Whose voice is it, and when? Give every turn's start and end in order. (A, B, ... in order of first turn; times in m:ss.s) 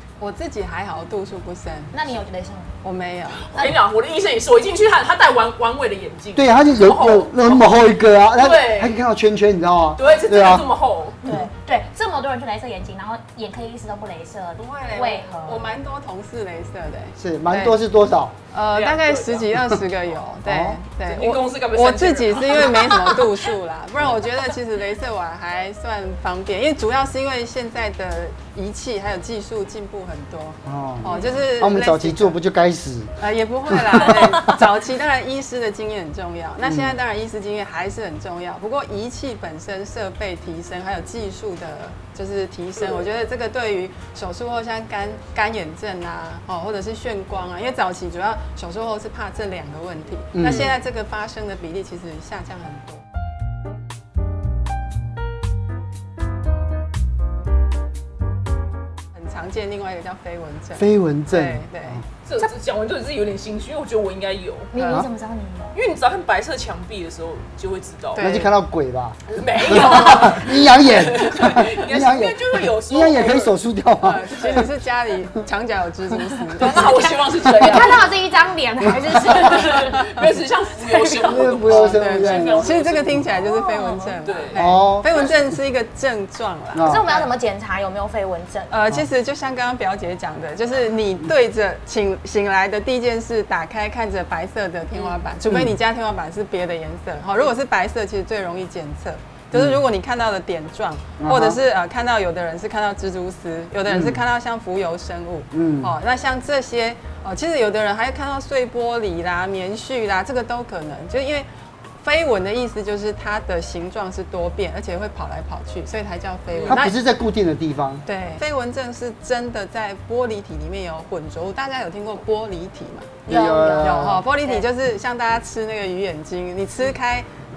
0:00.2-0:01.9 A
0:01.9-0:02.7 B
0:02.8-0:03.7 A
0:03.5-0:07.7 C
0:06.4-0:10.7 D
0:08.3-0:09.0 C
0:10.0-0:11.4 C
0:11.2-0:15.8 B
0:14.6-0:17.8 A
0:17.2-0:18.3 D
0:18.5-0:32.4 A
0:18.7-0:19.6 C
0:20.4-0:20.8 D
0:21.1-0:23.3 C
0:30.6-0:33.1 D
0:33.2-0:53.0 A
0:33.7-0:34.6 D
0:36.6-0:37.0 D
0:42.8-0:43.0 C
0:50.3-0:50.7 D
0:59.1-1:02.0 A
1:00.8-1:02.0 D
1:02.2-1:05.0 C
1:04.7-1:05.8 B
1:04.8-1:05.1 D
1:05.7-1:08.2 C
1:08.2-1:08.5 A
1:08.2-1:14.7 D
1:09.3-1:13.6 C
1:14.0-1:17.0 A
1:16.6-1:18.1 C
1:16.6-1:20.1 B
1:19.1-1:23.3 C
1:21.2-1:23.2 D
1:21.6-1:27.3 A
1:23.3-1:24.2 B
1:24.2-1:24.7 C
1:24.5-1:25.5 D
1:26.7-1:27.1 D
1:26.8-1:28.7 B
1:28.7-1:51.5 A
1:35.0-1:35.2 C
1:35.5-1:35.8 D
1:39.5-1:39.8 D
1:41.2-1:41.6 D
1:43.9-1:44.2 D
1:45.5-1:45.9 D
1:52.0-1:57.0 A
1:56.5-1:56.8 C
1:56.7-1:58.0 D
1:58.1-2:03.2 A
2:03.3-2:04.2 D
2:03.3-2:04.7 B
2:03.8-2:07.3 A